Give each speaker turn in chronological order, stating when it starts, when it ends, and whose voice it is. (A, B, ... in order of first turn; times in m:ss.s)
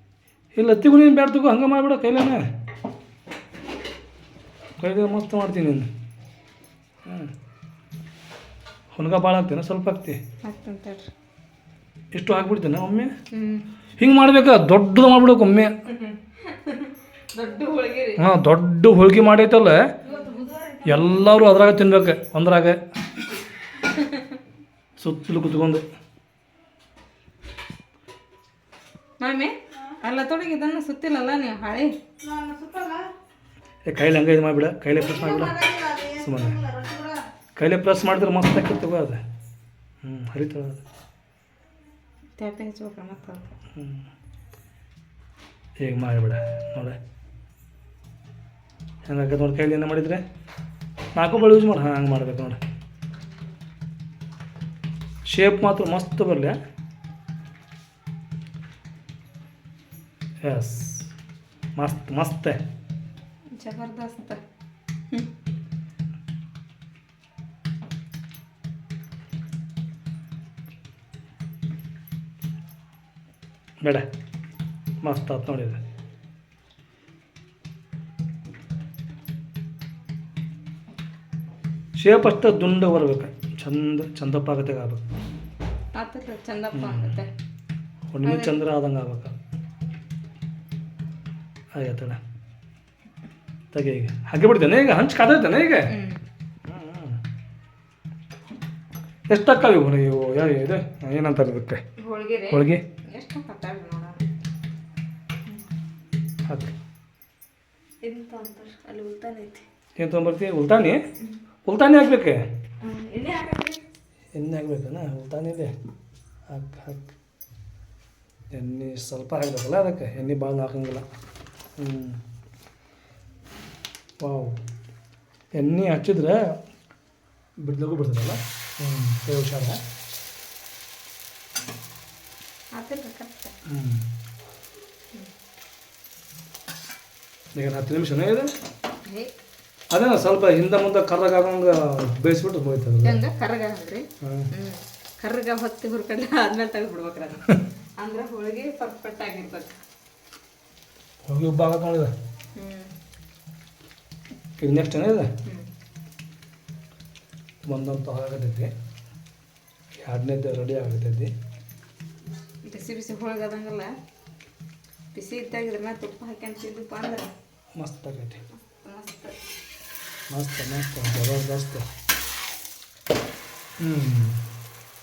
0:00.6-0:02.4 A
0:04.8-0:05.9 A
0:07.1-0:07.3 A
0:09.0-0:10.2 A
0:10.4-0:11.1 B
0:12.1-0:13.1 A
0:13.3-0:13.6 B
0:14.0-0:15.8 A
0:15.9-0:18.2 B
0:18.2-0:19.8 A
0:20.1-0:21.0 B
0:20.8-0:22.8 A
0:23.7-0:24.4 B
0:25.0-0:25.8 A
0:29.2-0:33.0 B
0:33.9-0:35.6 A
0:35.2-0:37.2 B
0:36.1-0:36.6 A
0:37.6-0:39.2 A
0:40.0-0:40.8 A
0:42.4-0:43.5 B
0:43.8-0:44.0 A
0:45.8-0:47.0 A
0:49.1-0:50.2 A
0:51.2-0:52.6 A
0:55.3-0:56.6 A
1:00.4-1:01.1 A
1:01.8-1:02.6 A
1:03.6-1:04.4 B
1:15.0-1:15.8 A
1:22.0-1:25.0 A
1:26.0-1:27.3 B
1:26.7-1:27.2 A
1:28.1-1:29.3 A
1:28.2-1:28.6 B
1:31.7-1:32.2 A
1:33.7-1:35.9 A
1:35.9-1:36.2 B
1:36.7-1:37.2 A
1:39.3-1:41.8 A
1:42.0-1:44.2 B
1:42.5-1:42.8 A
1:46.5-1:46.7 A
1:48.0-1:49.6 B
1:50.0-1:51.0 A
1:51.6-1:52.4 A
1:52.8-1:53.8 B
1:54.4-1:55.7 A
1:56.5-1:57.1 A
1:58.5-2:01.0 A
2:01.8-2:02.2 A
2:04.2-2:04.6 A
2:05.6-2:06.5 A
2:07.6-2:09.8 A
2:12.8-2:13.5 B
2:13.7-2:14.0 A
2:17.5-2:18.5 A
2:19.9-2:23.2 A
2:23.0-2:29.8 B
2:24.2-2:24.5 A
2:31.3-2:32.1 A
2:32.6-2:32.9 B
2:34.6-2:35.3 A
2:37.7-2:38.7 A
2:40.0-2:41.3 A
2:42.7-2:43.9 B
2:45.2-2:47.3 B
2:47.8-2:48.4 A
2:48.6-2:49.4 B
2:50.3-2:51.9 A
2:53.8-2:54.4 A